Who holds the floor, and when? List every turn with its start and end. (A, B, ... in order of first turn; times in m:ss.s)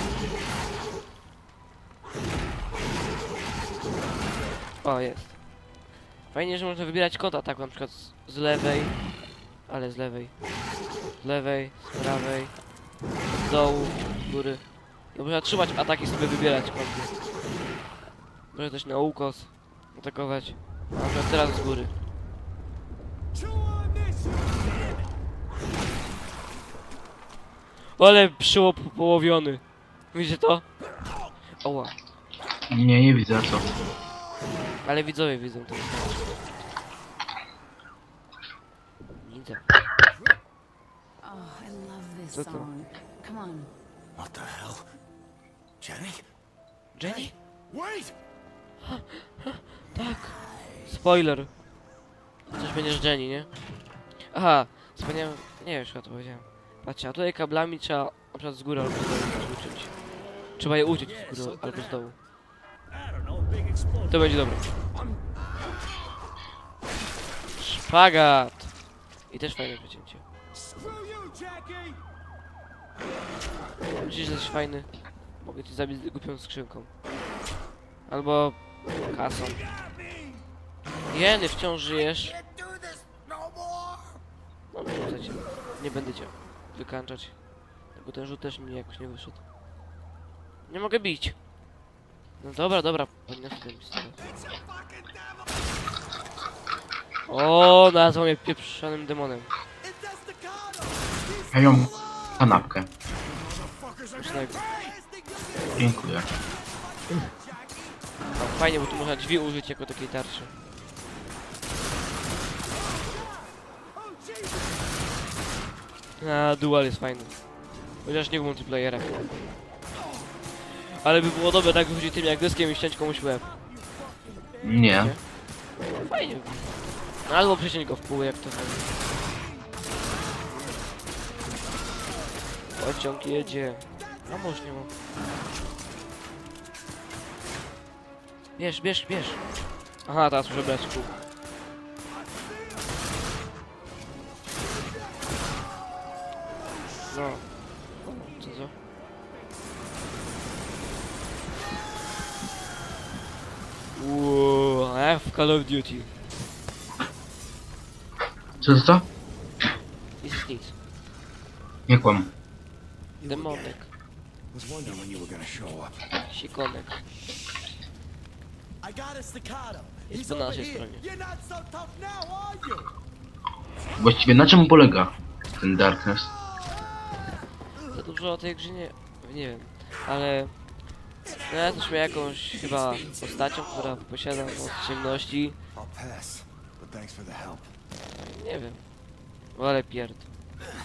0:04.8-0:05.4 A
0:06.3-0:09.0 A
0:09.7-0:10.4 A
0:11.2-0:12.6 A
0:13.3-0:17.1 A
0:18.5-0:21.9 A
0:23.4-0:24.8 B
0:28.0-0:30.6 A
0:31.6-0:31.9 A
0:32.7-0:33.7 C
0:34.8-0:36.3 A
0:39.2-0:39.7 A
0:41.2-0:43.7 D
0:42.3-0:42.7 A
0:44.2-0:44.9 E
0:45.8-0:46.2 E
0:47.0-0:47.3 A
0:47.7-0:48.1 E
0:48.8-0:51.5 A
0:52.5-0:53.5 A
0:54.3-1:00.0 A
1:00.6-1:02.2 A
1:04.1-1:04.7 A
1:07.6-1:08.7 A
1:09.3-1:10.2 A
1:10.7-1:11.9 B
1:14.0-1:14.9 A
1:15.4-1:16.9 A
1:18.1-1:19.6 A
1:21.1-1:22.4 A
1:24.7-1:27.4 A
1:27.9-1:29.4 A
1:30.7-1:31.4 A
1:32.4-1:34.2 A
1:34.4-1:35.1 B
1:37.3-1:39.5 A
1:39.8-1:42.3 B
1:41.5-1:42.9 C
1:43.4-1:43.8 B
1:44.2-1:44.6 A
1:44.5-1:45.9 B
1:45.8-1:46.3 C
1:46.4-1:47.9 B
1:48.4-1:50.5 A
1:54.1-1:54.6 B
1:56.2-1:57.4 A
1:58.0-1:59.2 A
2:00.7-2:03.5 A
2:04.6-2:05.2 C
2:04.9-2:05.2 A
2:06.0-2:09.0 A
2:12.8-2:14.9 A
2:18.6-2:19.4 A
2:20.0-2:21.1 A
2:27.1-2:27.5 A
2:28.0-2:28.7 A
2:33.9-2:36.1 A
2:38.6-2:39.1 C
2:40.2-2:40.8 A
2:41.9-2:42.3 C
2:43.2-2:43.9 A
2:44.5-2:46.0 E
2:46.3-2:47.0 A
2:48.8-2:52.9 B
2:50.1-2:51.0 A
2:54.0-2:56.3 C
2:57.9-3:00.5 A
3:01.4-3:05.6 A
3:05.7-3:07.7 E
3:08.3-3:08.8 A
3:09.5-3:10.3 A